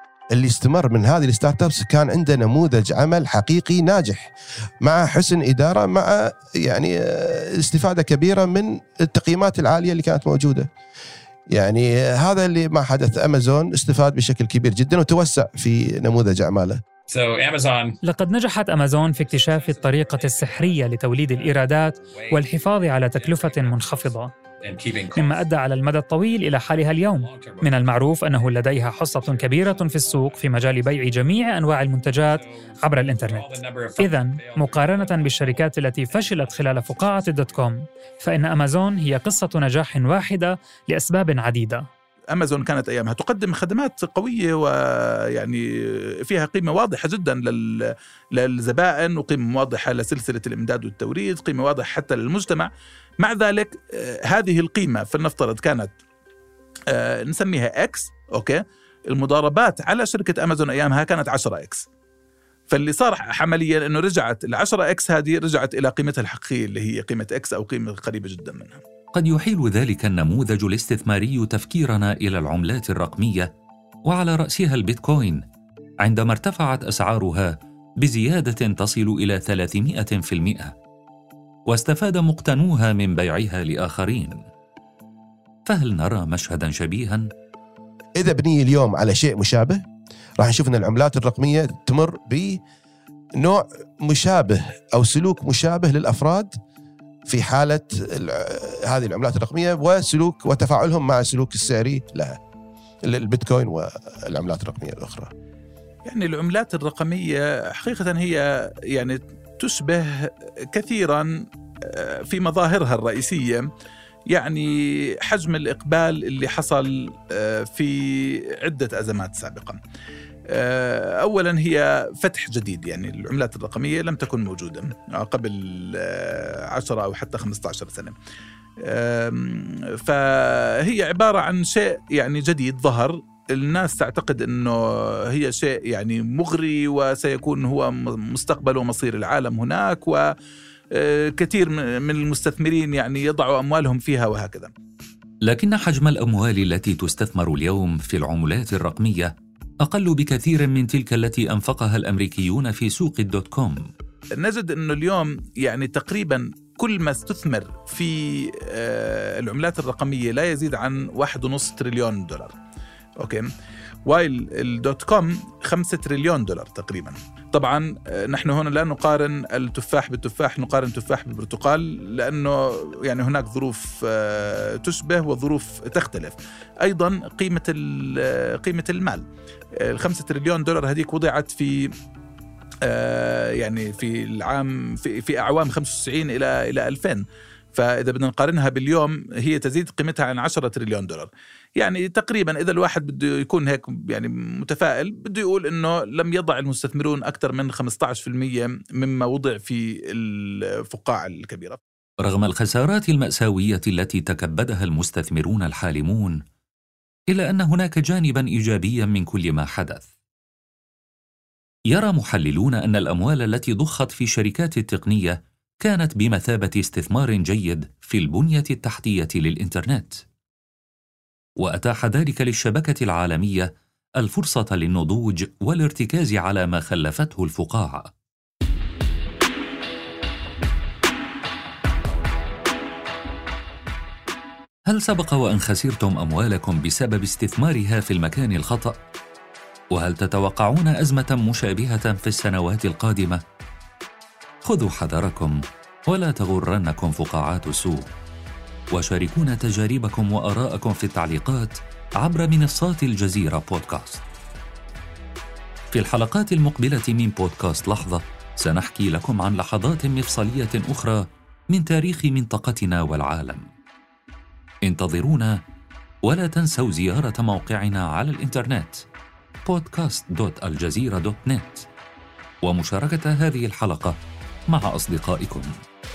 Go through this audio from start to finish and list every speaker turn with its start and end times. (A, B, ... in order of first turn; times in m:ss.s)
0:00.3-0:10.7 A
0:11.5-0:16.8 A
0:17.1-0:17.9 B
0:18.0-0:24.3 C
0:18.9-0:25.5 B
0:25.2-0:41.8 C
0:26.8-0:31.1 B
0:32.2-0:37.7 B
0:42.3-0:55.9 D
0:56.9-1:01.8 D
1:02.7-1:08.8 D
1:09.1-1:13.5 E
1:14.1-1:15.4 E
1:16.0-1:20.7 E
1:21.7-1:24.4 E
1:25.7-1:27.3 E
1:28.2-1:29.8 A
1:30.4-1:32.6 A
1:33.4-1:36.6 A
1:37.3-1:42.4 A
1:43.0-1:45.3 A
1:46.0-1:53.7 D
1:54.3-1:59.8 D
2:00.5-2:08.1 D
2:08.8-2:20.3 D
2:20.9-2:24.7 D
2:25.4-2:33.9 E
2:34.3-2:42.5 D
2:43.2-2:43.5 D
2:44.0-2:59.2 D
2:59.8-3:01.9 D
3:02.8-3:07.2 D
3:07.7-3:21.8 D
3:22.2-3:26.4 E
3:27.3-3:30.1 E
3:31.9-3:40.2 E
3:41.6-3:48.1 E
3:54.9-3:59.0 E
3:59.9-4:03.4 E
4:04.6-4:08.1 E
4:08.9-4:14.2 E
4:15.9-4:23.7 E
4:24.8-4:25.6 E
4:26.2-4:29.0 E
4:29.6-4:31.9 E
4:32.6-4:34.2 E
4:34.7-4:35.7 E